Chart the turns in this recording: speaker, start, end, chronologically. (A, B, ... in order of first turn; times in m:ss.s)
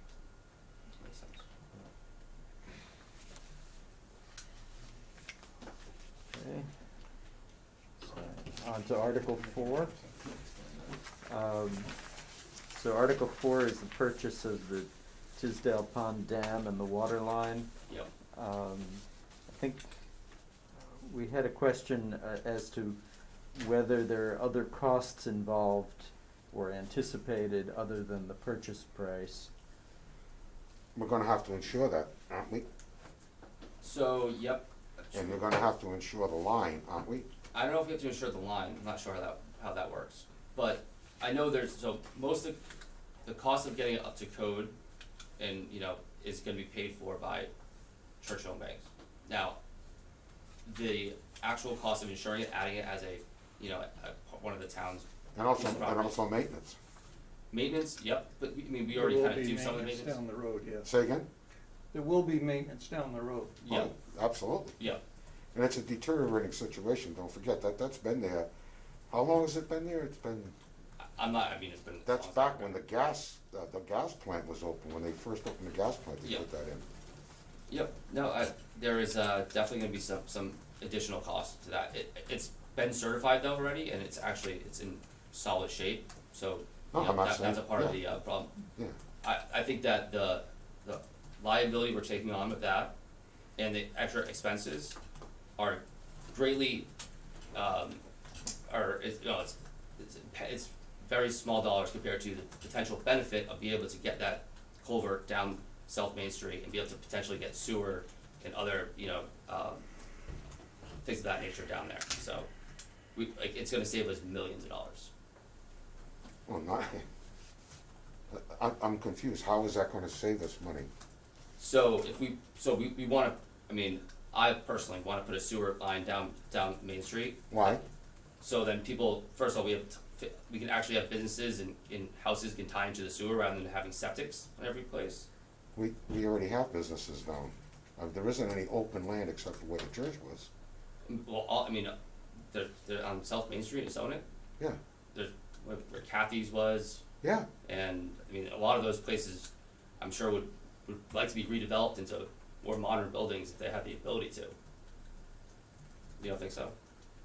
0:01.0-0:01.4 A
0:06.3-0:06.7 B
0:08.0-0:10.0 B
0:11.3-0:11.9 B
0:12.7-0:17.7 B
0:18.3-0:19.9 B
0:21.0-0:23.0 B
0:23.6-0:29.5 B
0:31.0-0:32.6 C
0:33.8-0:35.5 A
0:35.1-0:37.3 C
0:37.5-0:42.6 A
0:43.2-0:44.8 A
0:45.4-0:47.5 A
0:48.2-0:49.6 A
0:50.6-0:55.0 A
0:55.4-0:56.8 C
0:55.6-0:56.2 A
0:57.5-1:00.2 A
0:58.9-1:00.9 D
1:00.8-1:01.3 C
1:01.9-1:03.6 D
1:03.6-1:03.9 A
1:03.7-1:04.8 C
1:05.5-1:08.5 C
1:09.1-1:10.6 C
1:11.2-1:12.8 A
1:12.1-1:16.8 C
1:17.7-1:28.5 A
1:26.9-1:28.0 C
1:29.2-1:32.9 A
1:33.6-1:35.0 A
1:35.6-1:36.9 A
1:37.5-1:38.0 A
1:38.7-1:49.8 A
1:51.0-1:52.5 A
1:53.2-1:55.1 A
1:56.5-1:57.0 C
1:58.3-2:00.9 C
2:01.6-2:07.4 A
2:07.5-2:07.8 C
2:08.4-2:15.3 A
2:15.8-2:20.5 C
2:21.1-2:22.0 A
2:22.5-2:24.2 A
2:25.1-2:27.0 A
2:27.2-2:27.5 C
2:27.7-2:34.6 A
2:36.2-2:36.7 A